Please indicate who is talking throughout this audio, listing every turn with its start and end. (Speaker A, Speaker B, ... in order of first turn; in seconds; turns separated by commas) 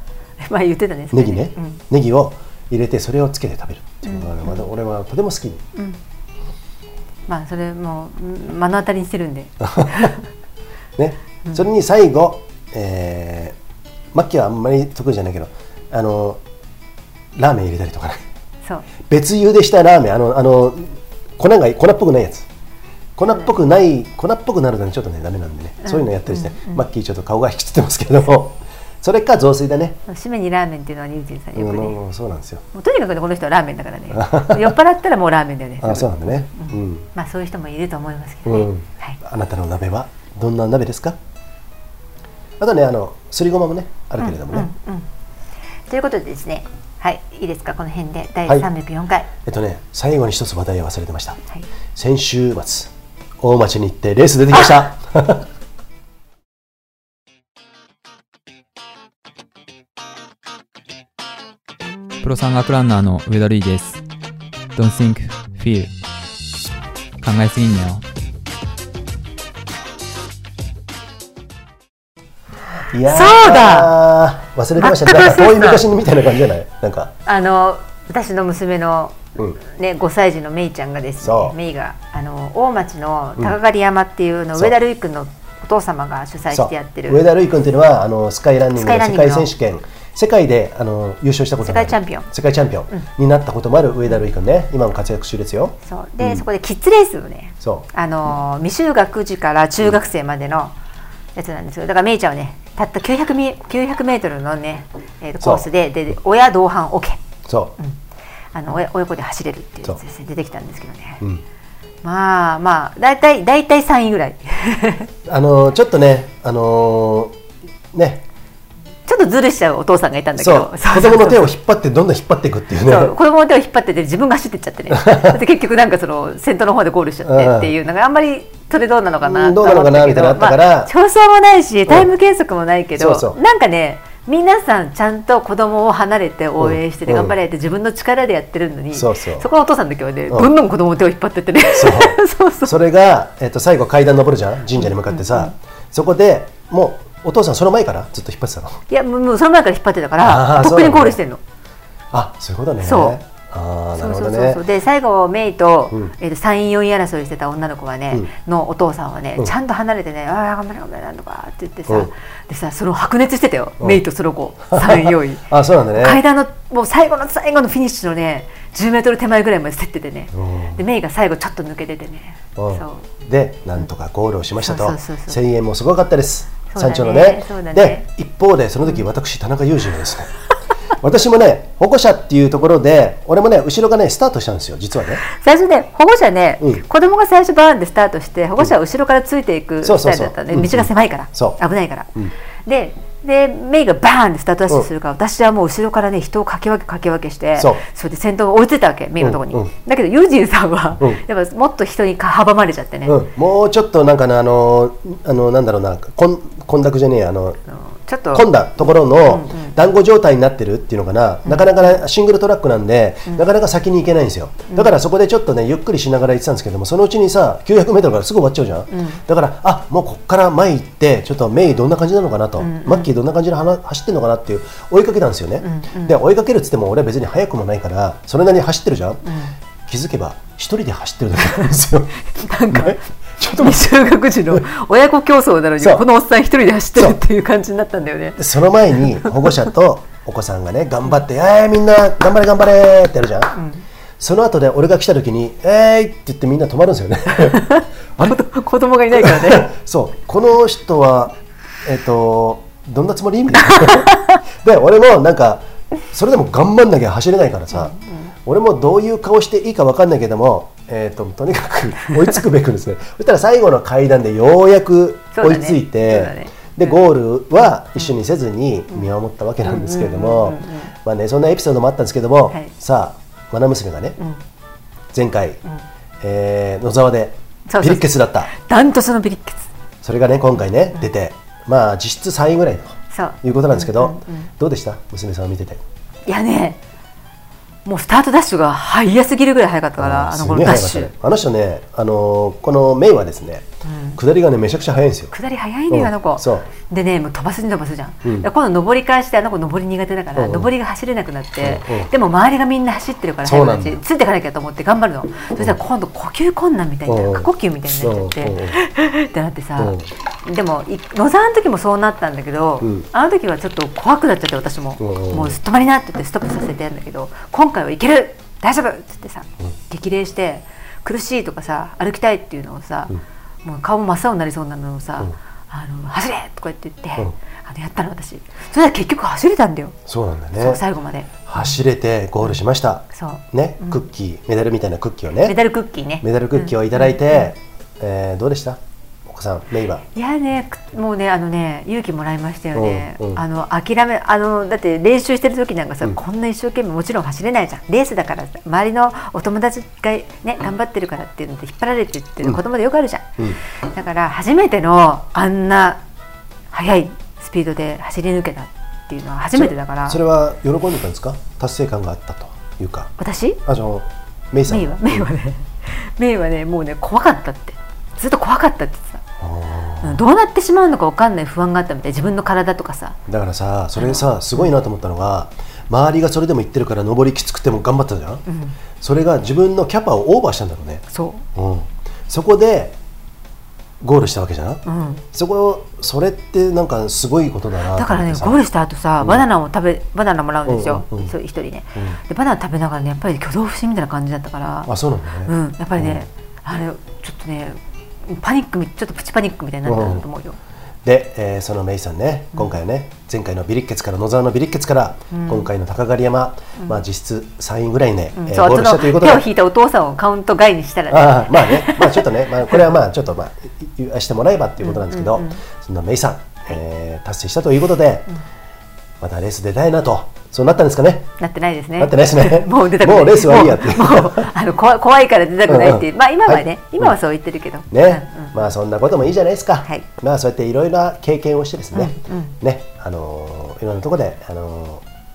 Speaker A: 0.4-1.8, Speaker B: 1.1-5.6, Speaker A: 4.0-4.7, Speaker A: 7.3-10.2, Speaker B: 9.6-10.1, Speaker B: 11.0-13.6, Speaker B: 14.1-16.4, Speaker B: 17.4-18.2, Speaker B: 19.1-22.5, Speaker B: 23.2-30.0, Speaker A: 25.8-26.8, Speaker A: 30.1-32.0, Speaker B: 31.6-32.6, Speaker A: 32.7-39.2, Speaker B: 34.1-34.8, Speaker B: 35.8-37.1, Speaker B: 38.5-41.2, Speaker B: 42.6-44.7, Speaker A: 44.2-45.1, Speaker A: 45.9-49.3, Speaker B: 49.4-51.4, Speaker B: 52.0-55.5, Speaker C: 62.2-64.0, Speaker C: 64.8-65.9, Speaker C: 67.2-68.0, Speaker B: 72.9-77.1, Speaker A: 73.1-74.0, Speaker A: 74.8-75.8, Speaker A: 77.3-87.2, Speaker B: 81.2-81.5, Speaker B: 86.5-96.4, Speaker A: 88.8-89.5, Speaker A: 91.6-92.3, Speaker A: 95.8-100.7, Speaker A: 101.4-107.2, Speaker B: 105.4-105.7, Speaker B: 107.5-107.8, Speaker A: 108.5-111.2, Speaker A: 112.0-115.1, Speaker B: 115.3-117.4, Speaker B: 117.9-118.2, Speaker A: 119.1-121.5, Speaker B: 120.4-123.2, Speaker A: 122.8-142.7, Speaker B: 124.9-125.4, Speaker B: 127.2-127.7, Speaker B: 129.2-130.9, Speaker B: 133.0-133.4, Speaker B: 136.6-137.4, Speaker B: 138.9-139.5, Speaker B: 141.8-148.8, Speaker A: 144.8-145.5, Speaker A: 148.9-151.4, Speaker B: 150.2-151.2, Speaker B: 152.1-154.6, Speaker A: 152.8-153.2, Speaker A: 154.0-173.1, Speaker B: 164.7-166.2, Speaker B: 170.3-170.8, Speaker B: 172.6-180.3, Speaker A: 174.6-175.4, Speaker A: 176.7-178.1, Speaker B: 181.0-185.2, Speaker A: 185.3-192.1, Speaker B: 189.8-191.6, Speaker A: 192.7-203.2, Speaker B: 197.6-197.8, Speaker B: 199.2-199.7, Speaker B: 203.1-207.6, Speaker A: 207.7-209.8, Speaker B: 208.3-229.3, Speaker A: 211.4-212.0, Speaker A: 218.9-219.2, Speaker A: 222.6-223.1, Speaker A: 225.6-226.2, Speaker A: 229.3-229.5, Speaker B: 229.9-232.2, Speaker A: 232.3-233.0, Speaker B: 232.7-233.9, Speaker A: 233.5-238.4, Speaker B: 235.8-236.1, Speaker B: 238.4-243.6, Speaker A: 243.6-243.8, Speaker B: 244.2-247.6, Speaker A: 247.3-249.7, Speaker B: 249.1-274.2, Speaker A: 257.7-258.3, Speaker A: 265.3-267.0, Speaker A: 269.6-270.9, Speaker B: 275.1-275.6, Speaker B: 276.2-278.5, Speaker A: 277.7-279.7, Speaker B: 280.0-285.8, Speaker A: 283.1-284.5, Speaker A: 286.3-286.8, Speaker A: 287.9-291.1, Speaker B: 290.0-295.3, Speaker A: 293.9-294.2, Speaker A: 295.3-323.1, Speaker B: 295.9-296.7, Speaker B: 300.4-300.7, Speaker B: 301.6-302.1, Speaker B: 303.4-304.0, Speaker B: 307.1-308.8, Speaker B: 309.8-310.1, Speaker B: 312.8-313.1, Speaker B: 315.0-315.6, Speaker A: 323.6-329.9, Speaker B: 330.1-330.8, Speaker A: 330.6-331.8, Speaker B: 331.5-335.6, Speaker A: 333.1-334.0, Speaker A: 335.4-337.5, Speaker B: 336.2-340.0, Speaker A: 340.1-353.3, Speaker B: 342.8-343.4, Speaker A: 353.9-356.0, Speaker A: 356.7-360.2, Speaker B: 359.5-363.1, Speaker A: 363.2-363.6, Speaker B: 363.6-365.3, Speaker A: 364.7-369.2, Speaker B: 369.4-370.2, Speaker A: 370.0-373.2, Speaker B: 373.3-378.4, Speaker A: 374.0-374.7, Speaker A: 378.5-378.8, Speaker B: 379.0-383.0, Speaker A: 381.1-381.4, Speaker B: 384.0-388.6, Speaker A: 384.9-385.2, Speaker A: 387.9-394.9, Speaker B: 390.7-391.3, Speaker B: 394.9-396.2, Speaker A: 395.5-400.6, Speaker B: 399.9-400.3, Speaker B: 401.1-409.5, Speaker A: 405.3-405.7, Speaker A: 408.3-412.8, Speaker B: 411.1-418.3, Speaker A: 414.8-415.6, Speaker B: 419.2-421.3, Speaker A: 421.4-428.6, Speaker B: 422.0-424.5, Speaker B: 425.7-427.1, Speaker B: 427.9-435.0, Speaker A: 431.9-432.5